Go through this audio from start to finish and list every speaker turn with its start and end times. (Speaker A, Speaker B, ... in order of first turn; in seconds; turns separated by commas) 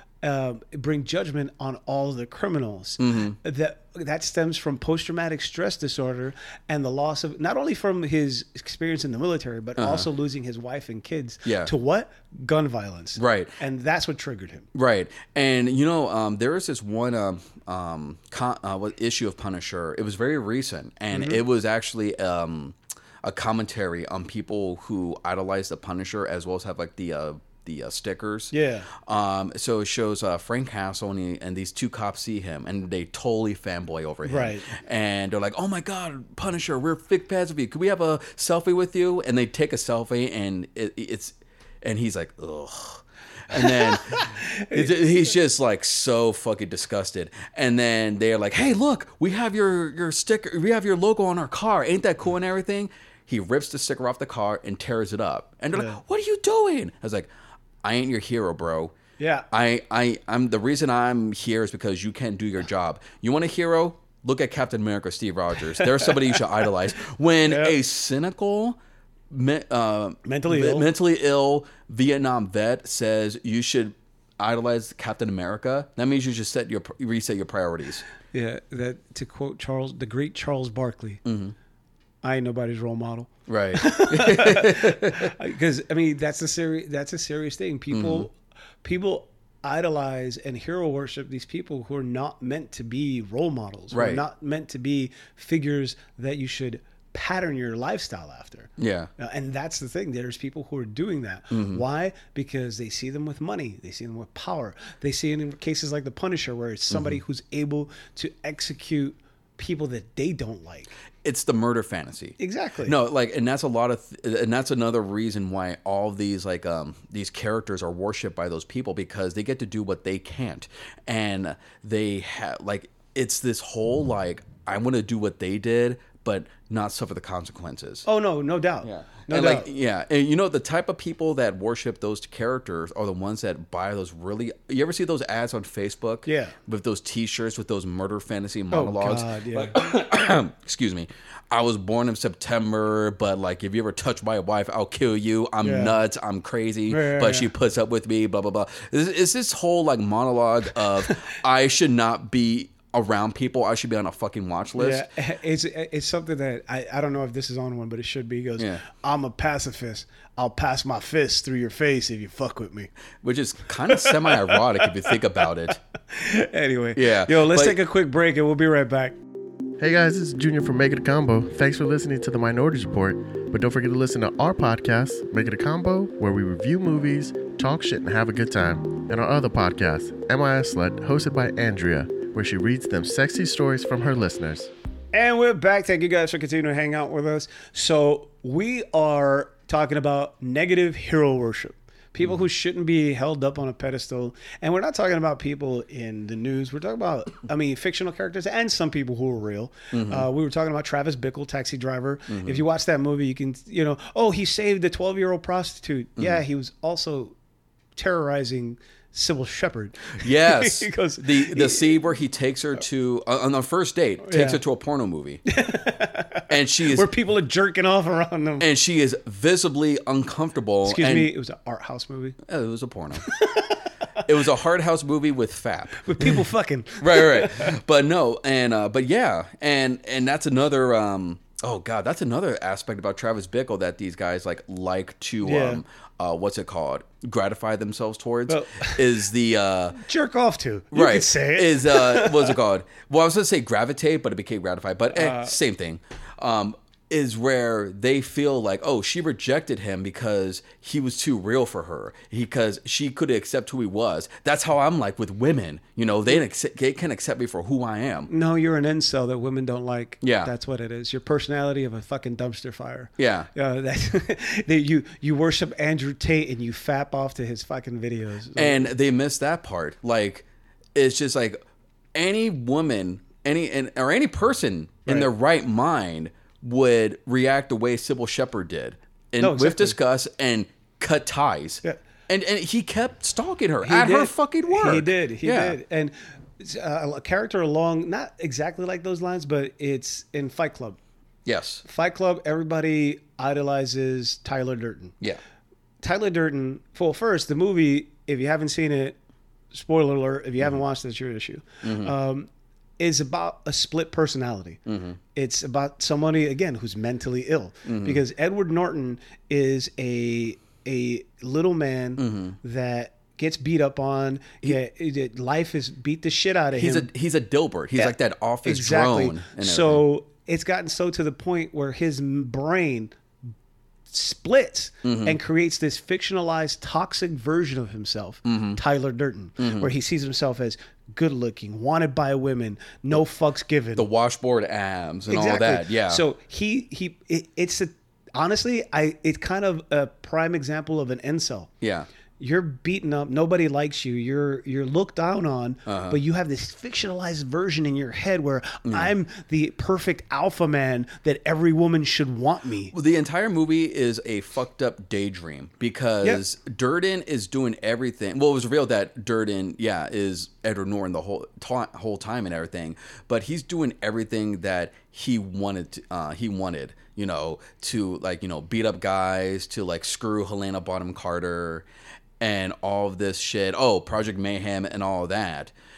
Speaker A: 0.2-14.7, Speaker B: 3.0-3.4, Speaker B: 9.8-10.1, Speaker B: 11.4-11.7, Speaker B: 13.2-13.5, Speaker B: 14.7-57.3, Speaker A: 21.1-21.4, Speaker A: 28.5-28.9, Speaker A: 34.2-34.7, Speaker A: 43.5-45.0, Speaker A: 55.7-56.0, Speaker B: 57.8-58.9, Speaker A: 59.2-59.5, Speaker B: 59.5-68.8, Speaker A: 65.8-66.1, Speaker A: 67.5-67.7, Speaker B: 69.3-78.0, Speaker A: 70.2-70.9, Speaker A: 78.3-81.2, Speaker B: 81.2-81.5, Speaker A: 82.2-110.9, Speaker B: 83.5-85.3, Speaker B: 87.9-88.3, Speaker B: 93.9-94.2, Speaker B: 98.8-99.1, Speaker B: 101.5-101.8, Speaker B: 106.9-107.2, Speaker B: 111.2-128.1, Speaker A: 112.4-112.9, Speaker A: 128.1-129.7, Speaker B: 128.8-155.1, Speaker A: 136.2-136.5, Speaker A: 138.7-139.8, Speaker A: 145.6-145.9, Speaker A: 146.9-147.5, Speaker A: 154.8-162.9, Speaker B: 163.2-165.8, Speaker A: 163.9-165.1, Speaker A: 166.1-169.2, Speaker B: 166.9-167.8, Speaker C: 169.8-184.7, Speaker A: 185.1-207.3, Speaker B: 199.9-200.3, Speaker B: 202.3-202.6, Speaker A: 207.9-212.0, Speaker B: 210.2-215.4, Speaker A: 214.2-214.6, Speaker A: 215.5-218.7, Speaker B: 216.5-217.1, Speaker B: 218.6-221.3, Speaker A: 220.8-222.4, Speaker B: 222.4-223.3, Speaker A: 223.2-223.7, Speaker B: 224.2-226.4, Speaker A: 226.0-227.8, Speaker B: 227.0-240.0, Speaker A: 235.4-235.8, Speaker A: 238.5-239.1, Speaker A: 240.0-242.6, Speaker B: 240.9-258.3, Speaker A: 245.1-245.5, Speaker A: 258.3-268.9, Speaker B: 260.2-260.5, Speaker B: 263.2-263.5, Speaker B: 268.6-271.6, Speaker B: 272.1-285.8, Speaker A: 279.4-280.0, Speaker A: 283.8-291.0, Speaker B: 291.4-291.8, Speaker A: 291.8-295.1, Speaker A: 296.0-299.1, Speaker A: 299.7-304.8, Speaker B: 301.8-302.1, Speaker B: 304.9-305.2, Speaker A: 305.3-317.1, Speaker B: 307.9-308.2, Speaker B: 312.2-312.6, Speaker B: 316.7-320.0, Speaker A: 318.0-323.1, Speaker A: 324.1-334.1, Speaker B: 325.0-325.4, Speaker B: 328.4-328.8, Speaker B: 329.6-329.9, Speaker B: 333.9-336.2, Speaker A: 335.3-341.7, Speaker B: 341.8-342.1, Speaker A: 342.4-352.9, Speaker B: 345.9-346.2, Speaker B: 348.9-349.1, Speaker B: 352.9-371.8, Speaker B: 372.4-375.7